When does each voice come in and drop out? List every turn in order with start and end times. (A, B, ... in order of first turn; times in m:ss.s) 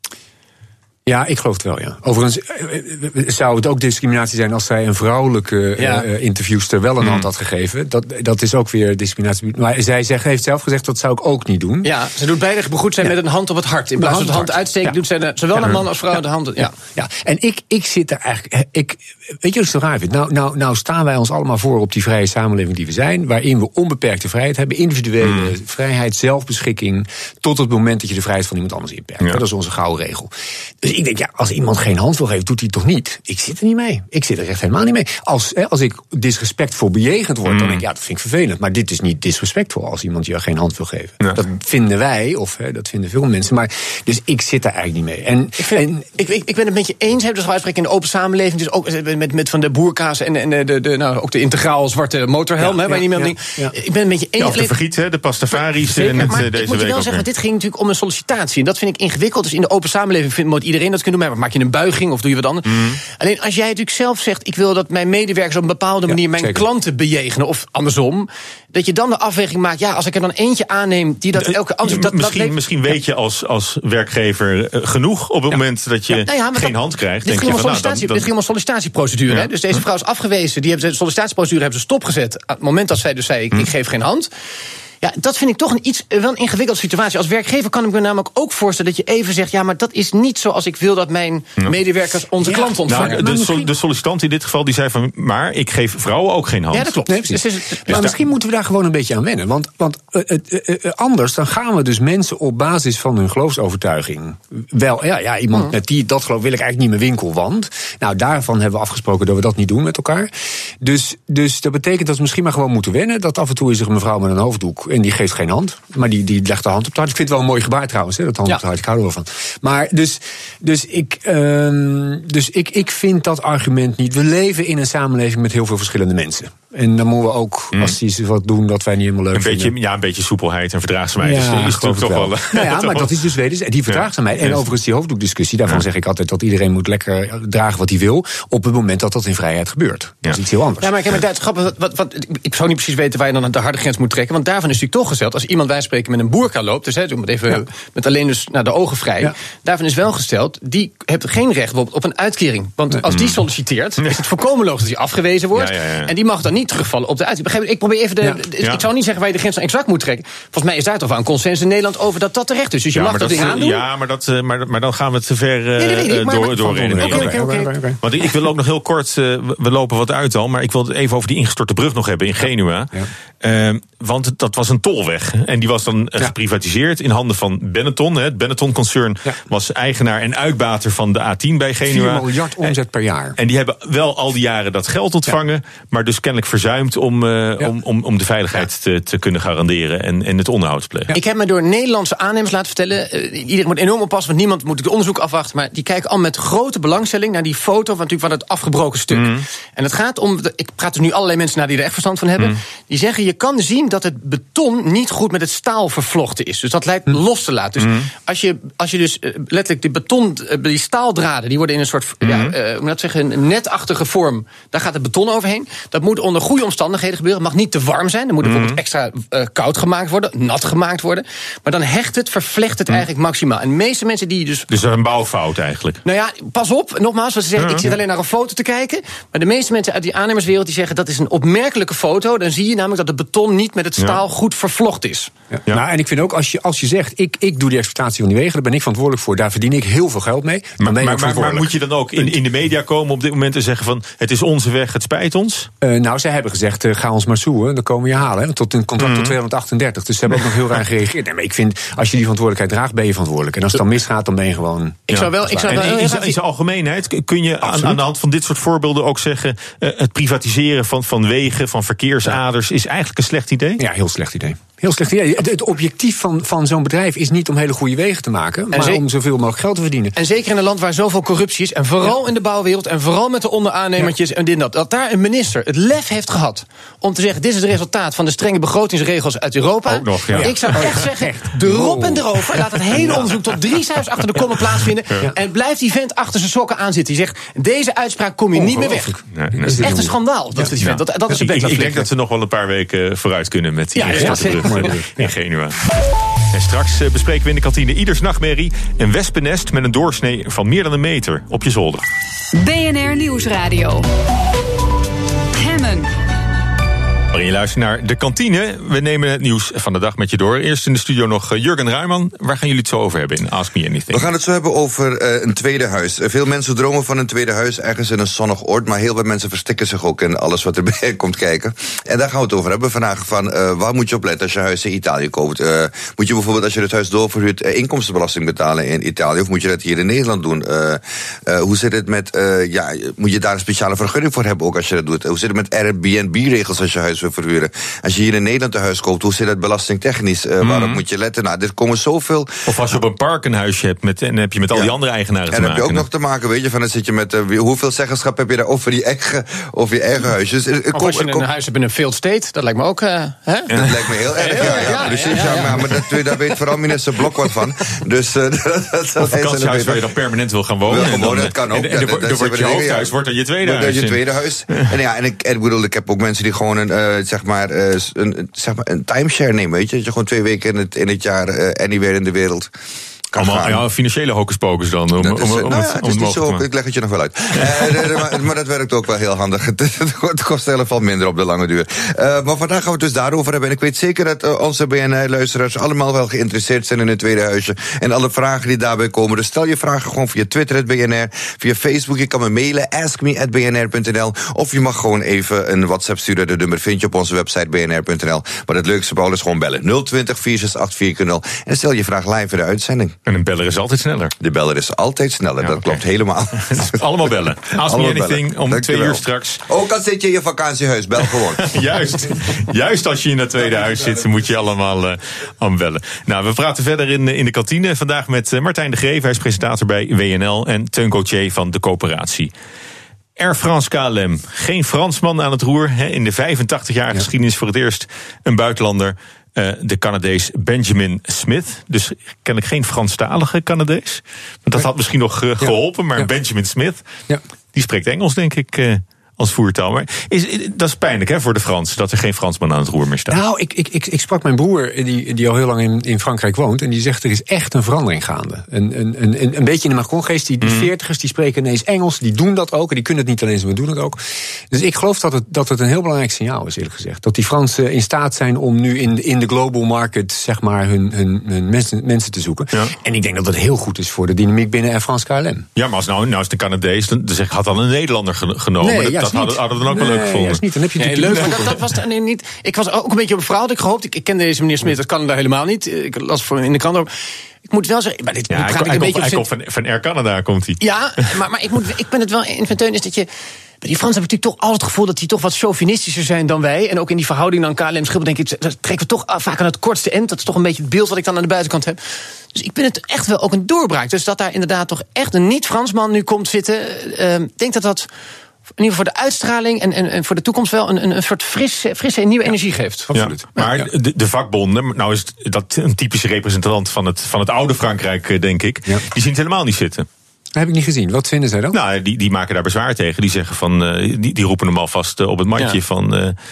0:01.1-0:11.9 A
0:05.8-0:06.0 B
0:07.0-0:07.3 C
0:11.8-0:16.8 B
0:14.0-0:15.0 A
0:17.0-0:46.1 A
0:25.2-0:25.5 C
0:37.5-0:37.8 C
0:45.6-0:54.8 B
0:52.6-0:53.8 A
0:54.4-0:57.3 C
0:55.5-1:12.6 B
1:02.7-1:03.0 C
1:06.1-1:06.6 A
1:11.4-1:18.3 C
1:16.1-1:24.3 B
1:19.3-1:19.8 C
1:25.0-1:33.6 B
1:32.4-1:37.0 C
1:32.5-1:33.7 A
1:36.7-1:38.2 B
1:37.1-2:09.7 A
1:37.9-1:38.2 C
2:09.3-2:13.2 C
2:11.2-2:20.9 A
2:13.9-2:14.7 C
2:20.8-2:43.8 B
2:33.0-2:33.4 C
2:35.5-2:36.1 C
2:38.6-2:38.9 C
2:42.9-3:02.8 C
2:45.8-2:47.8 B
2:46.6-2:48.0 A
3:01.8-3:03.4 A
3:03.4-3:11.1 C
3:11.1-3:44.7 B
3:19.1-3:19.4 C
3:27.8-3:28.1 C
3:32.2-3:32.6 C
3:38.4-3:38.8 C
3:44.7-3:46.0 C
3:46.0-3:55.3 B
3:47.6-3:47.9 C
3:54.0-3:54.2 C
3:55.5-4:02.4 A
4:00.8-4:05.7 C
4:05.8-4:15.9 A
4:09.0-4:09.4 C
4:15.1-4:23.8 C
4:15.1-4:16.4 B
4:17.6-4:18.0 A
4:23.8-4:30.2 A
4:28.7-4:29.0 B
4:30.2-4:49.2 B
4:39.9-4:41.0 C
4:40.3-4:43.5 A
4:43.0-4:43.2 C
4:44.6-4:45.3 C
4:48.6-4:50.8 A
4:49.3-4:49.9 C
4:49.7-4:52.1 B
4:50.8-4:55.8 C
4:54.0-4:55.0 B
4:54.0-4:55.3 A
4:56.5-5:02.0 C
5:02.5-5:04.1 D
5:05.5-5:06.1 D
5:07.3-5:14.3 C
5:14.1-5:42.5 E
5:40.6-5:41.0 C
5:42.7-5:46.1 C
5:45.5-5:51.5 E
5:50.9-5:53.8 B
5:53.7-6:00.2 E
5:53.7-5:54.0 C
5:54.4-5:55.8 B
5:55.3-5:55.6 C
5:59.2-6:05.0 C
6:00.8-6:12.7 E
6:13.3-6:13.8 E
6:13.4-6:16.6 C
6:15.2-6:43.2 E
6:17.6-6:18.2 C
6:43.3-6:44.3 C
6:44.4-6:51.8 E
6:45.6-6:46.0 C
6:46.7-6:49.6 C
6:51.4-7:02.5 C
7:03.4-7:17.0 C
7:15.6-7:16.3 A
7:17.7-7:23.4 C
7:23.3-7:34.2 A
7:30.6-7:30.9 C
7:34.7-7:45.7 A
7:45.8-7:50.6 C
7:48.8-7:51.8 A
7:51.0-7:57.1 B
7:57.7-7:59.5 B
7:58.5-8:00.8 C
8:00.8-8:03.3 B
8:03.8-8:12.0 B
8:12.5-8:18.1 B
8:18.8-8:23.1 B
8:23.1-8:23.9 A
8:23.1-8:30.1 C
8:30.6-8:31.8 A
8:31.7-8:36.4 C